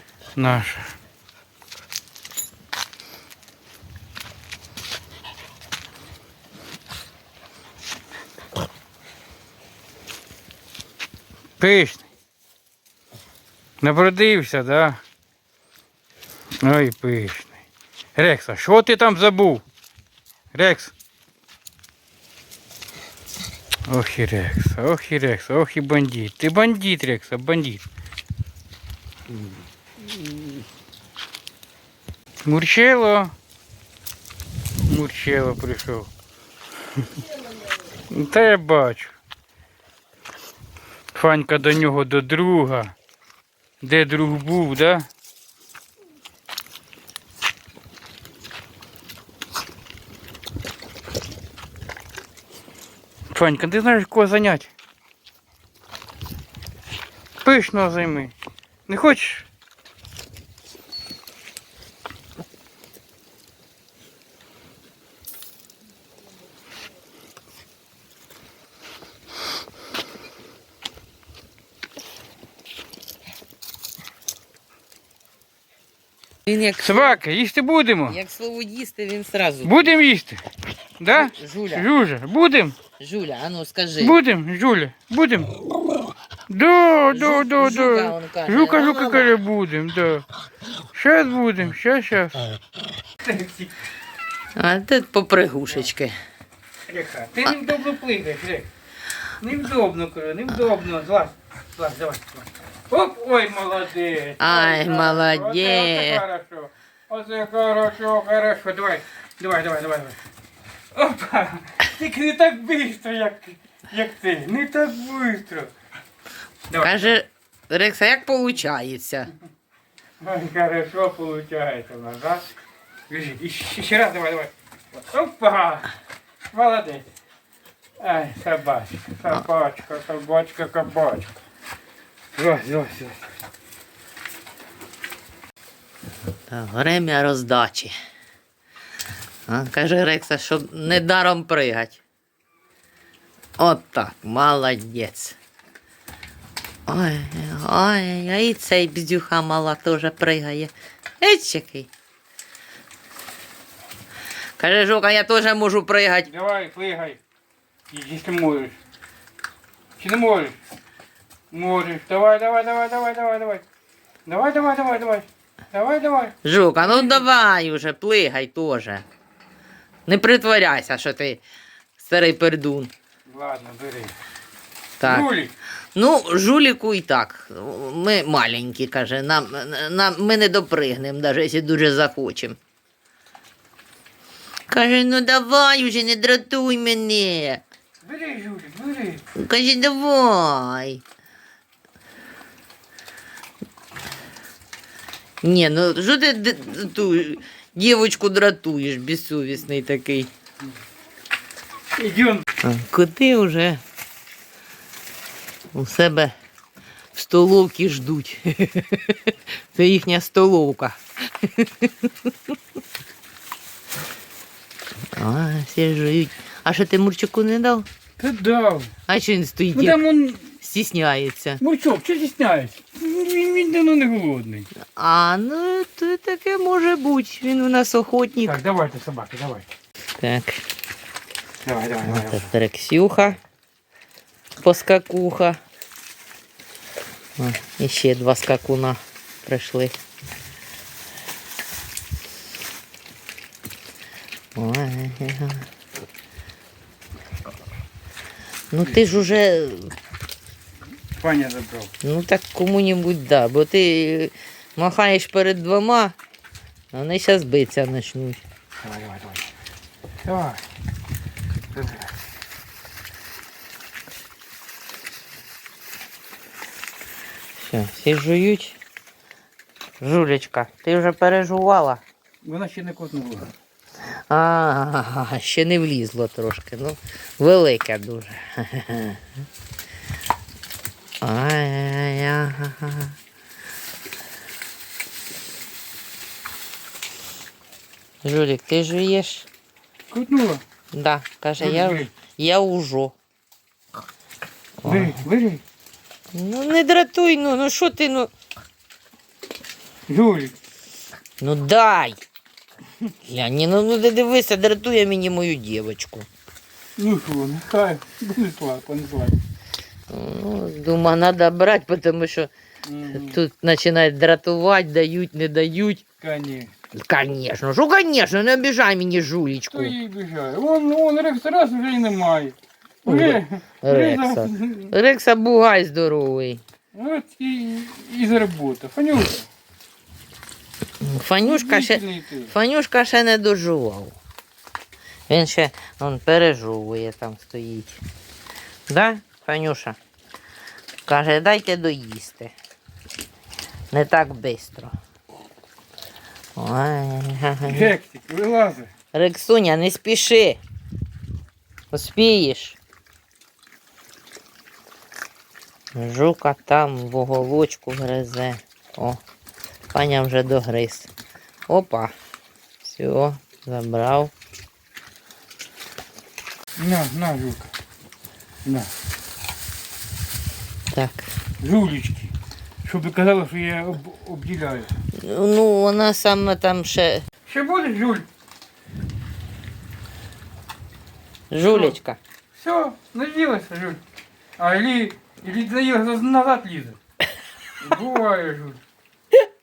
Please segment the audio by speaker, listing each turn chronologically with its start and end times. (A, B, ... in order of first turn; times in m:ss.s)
0:00.4-0:00.9 A
0:11.6-0:12.0 A
0:13.8-0:15.0 A
0:16.6-0:17.6 A
0:18.1-0:19.6 A
0:20.5-0:20.9 A
0:23.9-0:27.8 A
0:32.4-0:33.3 A
0:34.9-0:36.1 A
0:38.1-0:39.1 A
0:41.1-0:42.9 A
0:43.8-0:45.0 A
0:53.3-0:54.7 A
0:57.4-0:58.3 A
0:58.9-0:59.4 A
1:16.5-1:17.1 B
1:16.6-1:18.2 A
1:18.1-1:19.9 B
1:19.6-1:20.4 A
1:21.0-1:22.8 A
1:21.1-1:21.9 B
1:23.0-1:24.2 B
1:24.0-1:25.5 A
1:26.5-1:30.2 A
1:27.1-1:29.4 B
1:30.9-1:32.4 A
1:33.2-1:33.7 A
1:34.6-1:36.1 B
1:36.9-1:38.7 A
1:39.4-1:50.2 A
1:44.4-1:46.2 B
1:50.9-1:55.7 A
1:56.7-1:57.2 A
1:56.8-1:59.3 B
2:00.2-2:02.4 A
2:03.1-2:05.9 A
2:06.5-2:07.0 A
2:08.0-2:11.4 A
2:12.3-2:13.2 A
2:16.5-2:17.9 B
2:19.5-2:22.0 B
2:23.6-2:25.4 B
2:26.9-2:31.9 B
2:34.6-2:36.3 B
2:36.3-2:37.2 A
2:37.9-2:38.8 A
2:40.0-2:40.6 A
2:41.5-2:43.6 A
2:44.2-2:47.2 A
2:46.4-2:49.0 B
2:50.1-2:51.4 B
2:52.0-2:52.9 B
2:53.3-2:54.1 A
2:55.0-2:55.3 B
2:55.0-2:55.5 A
2:55.9-3:02.6 B
3:04.7-3:07.6 B
3:08.0-3:09.2 A
3:09.3-3:11.0 B
3:15.4-3:20.3 B
3:22.0-3:22.4 A
3:22.6-3:23.8 B
3:25.7-3:26.3 B
3:27.1-3:32.1 B
3:35.1-3:37.8 B
3:38.2-3:38.9 A
3:39.1-3:40.0 B
3:39.7-3:40.6 A
3:40.6-3:41.6 B
3:41.6-3:44.7 A
3:45.0-3:48.6 B
3:48.4-3:49.7 A
3:50.2-3:50.6 B
3:51.6-3:52.5 A
3:52.0-3:53.4 B
3:54.6-3:55.6 B
3:57.4-4:00.0 B
4:04.5-4:05.6 B
4:08.7-4:09.9 B
4:11.1-4:11.9 A
4:12.0-4:16.1 B
4:16.9-4:18.4 B
4:18.8-4:19.4 A
4:20.2-4:20.6 A
4:21.7-4:22.1 A
4:27.6-4:28.8 B
4:30.0-4:32.0 B
4:32.4-4:33.5 A
4:34.3-4:39.2 B
4:41.2-4:43.2 B
4:48.2-4:49.5 B
4:50.1-4:50.6 A
4:50.9-4:53.1 B
4:51.6-4:52.1 A
4:54.8-4:55.2 B
4:54.8-4:55.6 A
4:56.3-4:58.3 B
5:00.1-5:00.5 A
5:01.4-5:02.2 B
5:03.2-5:06.3 B
5:07.0-5:09.4 A
5:10.1-5:12.5 B
5:12.8-5:13.4 A
5:13.1-5:16.0 B
5:16.2-5:16.7 A
5:16.9-5:19.9 B
5:19.7-5:24.9 A
5:23.0-5:26.6 B
5:26.9-5:29.5 A
5:31.0-5:34.2 B
5:31.4-5:32.5 A
5:35.3-5:38.0 B
5:38.9-5:40.0 B
5:41.0-5:42.5 B
5:43.9-5:44.9 B
5:46.6-5:47.9 B
5:47.6-5:48.9 A
5:49.1-5:50.6 B
5:51.9-5:52.8 B
5:55.9-5:59.2 B
5:59.9-6:01.1 B
6:01.7-6:02.1 B
6:02.8-6:04.3 B
6:06.8-6:07.7 A
6:08.6-6:08.9 A
6:10.9-6:11.3 B
6:11.6-6:12.3 A
6:12.8-6:14.9 A
6:15.1-6:17.2 B
6:17.4-6:18.2 A
6:21.5-6:22.2 B
6:21.7-6:22.0 A
6:22.5-6:24.0 A
6:24.6-6:27.0 A
6:27.8-6:28.8 A